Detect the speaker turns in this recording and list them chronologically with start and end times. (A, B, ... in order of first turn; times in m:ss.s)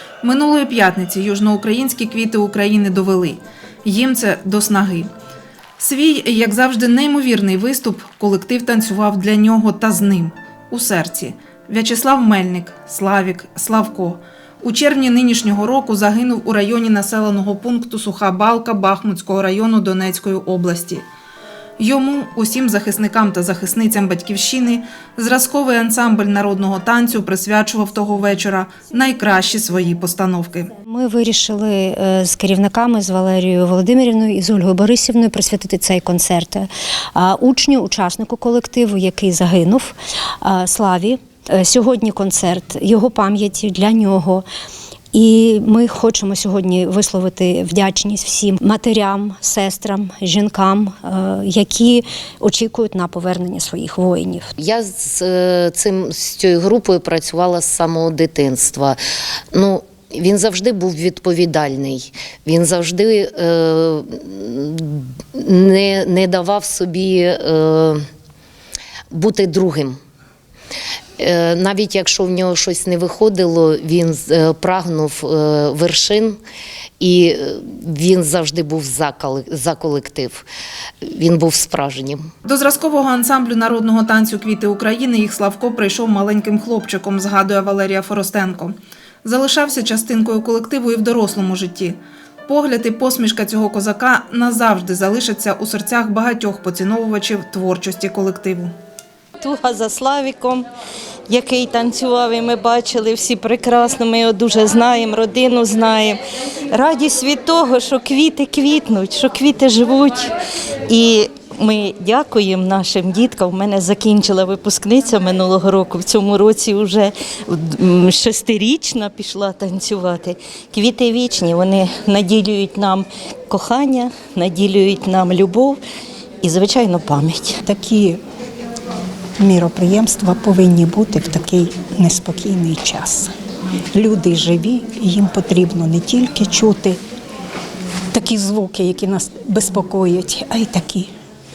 0:00.2-0:05.1 A
0:05.8-0:21.0 A
0:21.8-0:30.7 A
0:30.9-0:44.4 B
0:45.1-0:54.5 B
0:54.6-0:59.0 C
0:59.5-1:08.0 C
1:09.1-1:10.0 C
1:11.2-1:16.4 C
1:17.0-1:20.4 C
1:21.0-1:22.3 C
1:22.4-1:32.0 A
1:32.5-1:38.7 A
1:39.4-1:40.7 D
1:41.3-1:50.3 D
1:50.9-2:05.8 D
2:06.4-2:07.6 D
2:07.6-2:08.2 E
2:09.4-2:13.3 E
2:13.9-2:17.0 E
2:18.1-2:21.1 E